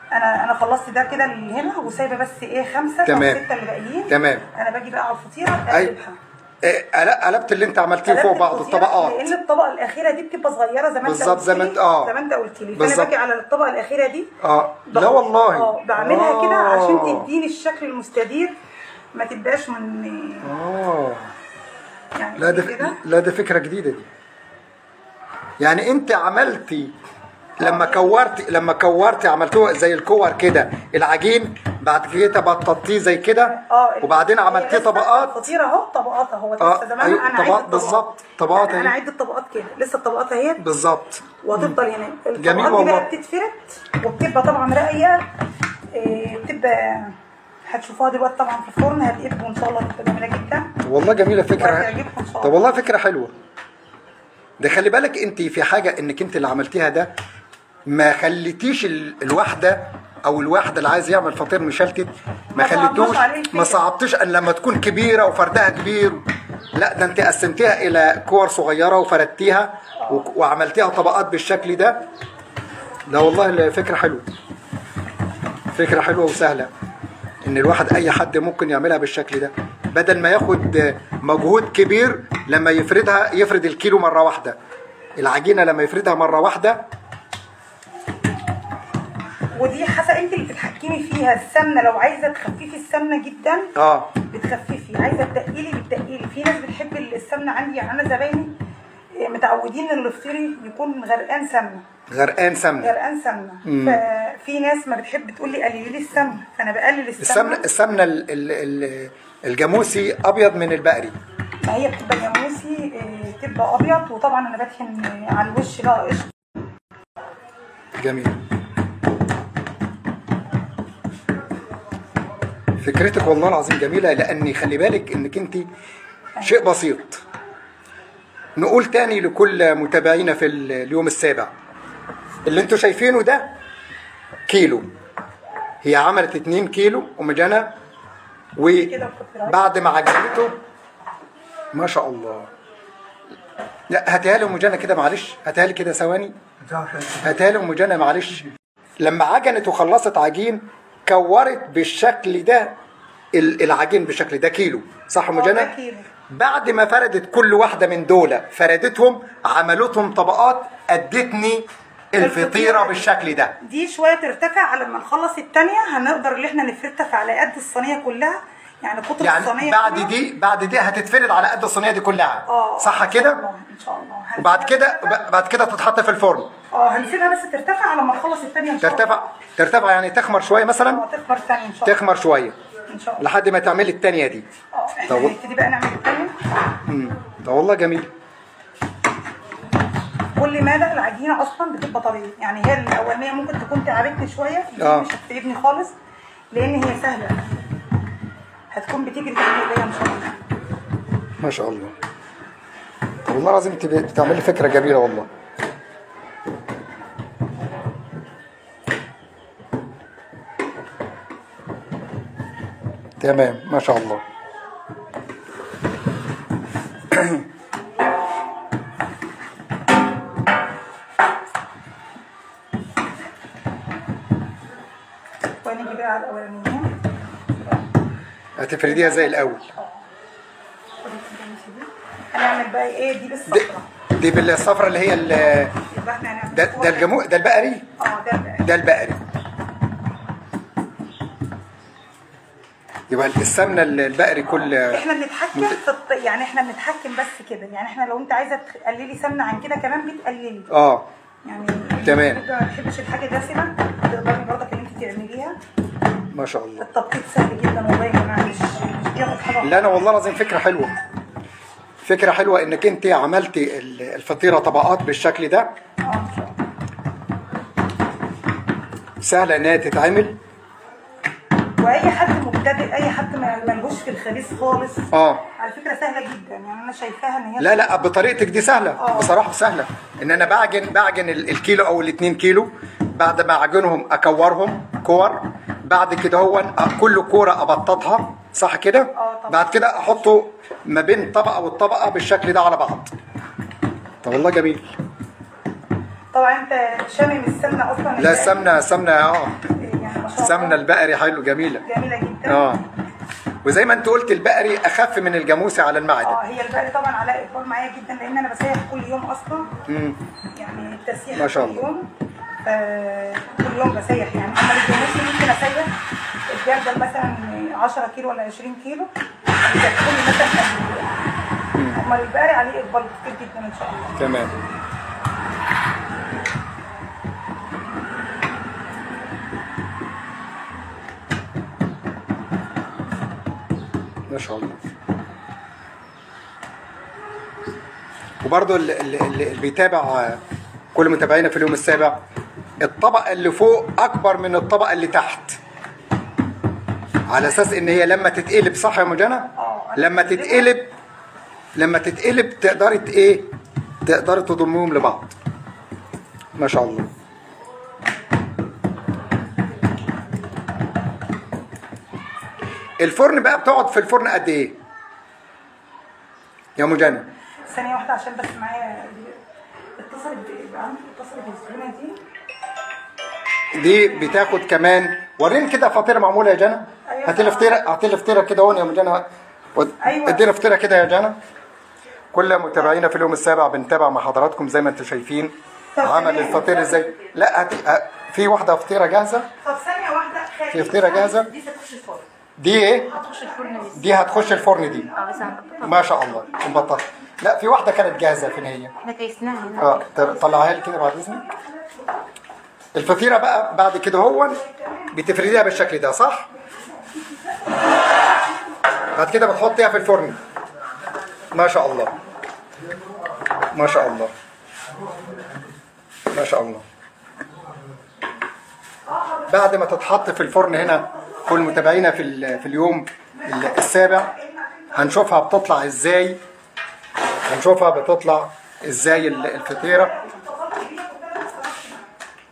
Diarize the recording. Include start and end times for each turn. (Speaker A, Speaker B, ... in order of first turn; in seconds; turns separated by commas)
Speaker A: 0.1-6.2, Speaker B: 3.0-3.4, Speaker B: 4.1-4.4, Speaker B: 6.6-9.3, Speaker A: 8.1-14.3, Speaker B: 11.0-12.1, Speaker B: 12.8-13.1, Speaker B: 14.4-17.3, Speaker A: 14.9-18.5, Speaker A: 19.1-20.5, Speaker B: 20.4-21.3, Speaker A: 22.1-23.0, Speaker B: 22.4-24.1, Speaker B: 25.6-26.9, Speaker A: 27.6-28.1, Speaker B: 27.6-35.5, Speaker A: 33.5-40.6, Speaker B: 36.6-38.9, Speaker B: 40.6-41.8, Speaker A: 41.4-45.2, Speaker B: 42.4-43.1, Speaker A: 45.9-50.7, Speaker B: 50.8-53.3, Speaker A: 51.5-52.6, Speaker B: 54.6-57.1, Speaker B: 57.9-72.0, Speaker A: 62.5-63.8, Speaker B: 73.1-74.3, Speaker B: 75.7-76.7, Speaker B: 77.4-84.6, Speaker B: 85.2-86.8, Speaker A: 89.5-93.7, Speaker B: 93.8-94.1, Speaker A: 94.2-98.5, Speaker A: 99.1-101.9, Speaker B: 102.1-102.9, Speaker A: 102.8-107.6, Speaker B: 103.6-104.0, Speaker B: 107.2-111.2, Speaker A: 111.6-116.3, Speaker B: 118.0-118.4, Speaker B: 122.8-125.7, Speaker B: 126.4-127.2, Speaker B: 128.6-131.5, Speaker B: 132.4-133.5, Speaker B: 134.5-134.9, Speaker B: 135.8-137.7, Speaker B: 138.6-138.9, Speaker A: 138.7-139.6, Speaker B: 139.4-140.6, Speaker B: 141.7-142.5, Speaker B: 143.9-148.5, Speaker B: 149.0-152.7, Speaker B: 153.3-155.7, Speaker A: 155.3-156.1, Speaker B: 156.3-163.5, Speaker A: 162.2-170.1, Speaker B: 169.2-173.4, Speaker A: 172.4-175.2, Speaker B: 174.4-176.5, Speaker A: 176.7-179.2, Speaker B: 178.8-181.0, Speaker A: 180.9-182.0, Speaker B: 181.8-182.6, Speaker A: 182.9-183.2, Speaker B: 183.2-184.5, Speaker A: 184.7-186.3, Speaker B: 185.1-185.3, Speaker B: 186.8-188.1, Speaker A: 190.3-195.9, Speaker B: 194.8-195.1, Speaker A: 196.5-197.4, Speaker A: 198.7-200.4, Speaker B: 201.4-201.9, Speaker B: 203.2-205.3, Speaker B: 213.2-214.2, Speaker B: 217.1-217.4, Speaker A: 225.6-226.9, Speaker A: 227.5-227.9, Speaker B: 228.6-229.6, Speaker A: 228.8-230.0, Speaker A: 231.0-233.9, Speaker B: 233.5-235.7, Speaker A: 235.8-237.1, Speaker B: 236.5-237.9, Speaker A: 238.0-238.7, Speaker B: 238.6-239.2, Speaker B: 243.1-245.0, Speaker A: 244.9-250.7, Speaker B: 250.7-251.1, Speaker A: 251.4-255.6, Speaker B: 252.0-252.4, Speaker B: 256.3-256.9, Speaker A: 256.8-259.8, Speaker B: 259.6-261.0, Speaker B: 262.0-265.7, Speaker A: 266.0-266.5, Speaker B: 269.2-270.4, Speaker A: 271.8-277.9, Speaker B: 275.1-275.4, Speaker B: 277.6-293.1, Speaker A: 279.0-279.4, Speaker A: 289.1-290.4, Speaker B: 294.2-294.9, Speaker A: 296.3-298.6, Speaker B: 298.2-299.7, Speaker A: 299.8-300.8, Speaker B: 300.4-301.8, Speaker A: 301.9-302.8, Speaker B: 302.4-302.8, Speaker B: 303.6-306.4, Speaker A: 306.2-309.7, Speaker B: 309.9-310.2, Speaker A: 310.5-312.1, Speaker B: 311.4-311.9, Speaker A: 312.6-315.9, Speaker A: 316.5-319.1, Speaker A: 319.6-321.1, Speaker B: 321.7-322.0, Speaker A: 321.9-324.2, Speaker B: 324.2-324.5, Speaker B: 334.3-334.8, Speaker B: 338.4-340.4, Speaker B: 340.9-342.2, Speaker B: 342.8-345.6, Speaker B: 347.3-350.9, Speaker A: 349.6-350.7, Speaker B: 351.8-353.5, Speaker B: 354.0-355.4, Speaker B: 356.5-357.1, Speaker B: 363.0-364.8, Speaker B: 366.8-367.3, Speaker A: 367.7-369.4, Speaker A: 370.0-372.2, Speaker B: 373.7-381.4, Speaker A: 377.1-377.8, Speaker A: 380.0-380.5, Speaker B: 382.3-389.5, Speaker A: 385.9-387.0, Speaker A: 389.6-391.5, Speaker B: 390.7-391.5, Speaker C: 391.3-392.2, Speaker B: 392.6-393.2, Speaker C: 393.1-394.4, Speaker B: 393.9-395.1, Speaker C: 395.1-396.1, Speaker A: 395.6-395.9, Speaker B: 395.8-398.9, Speaker C: 399.0-400.4, Speaker B: 399.8-401.4, Speaker B: 402.9-406.5, Speaker B: 409.1-410.4, Speaker B: 411.5-412.1, Speaker B: 413.7-414.3, Speaker B: 416.3-416.8, Speaker B: 419.5-424.3, Speaker A: 423.4-425.2, Speaker B: 424.9-426.4, Speaker B: 427.5-430.1, Speaker A: 429.4-432.1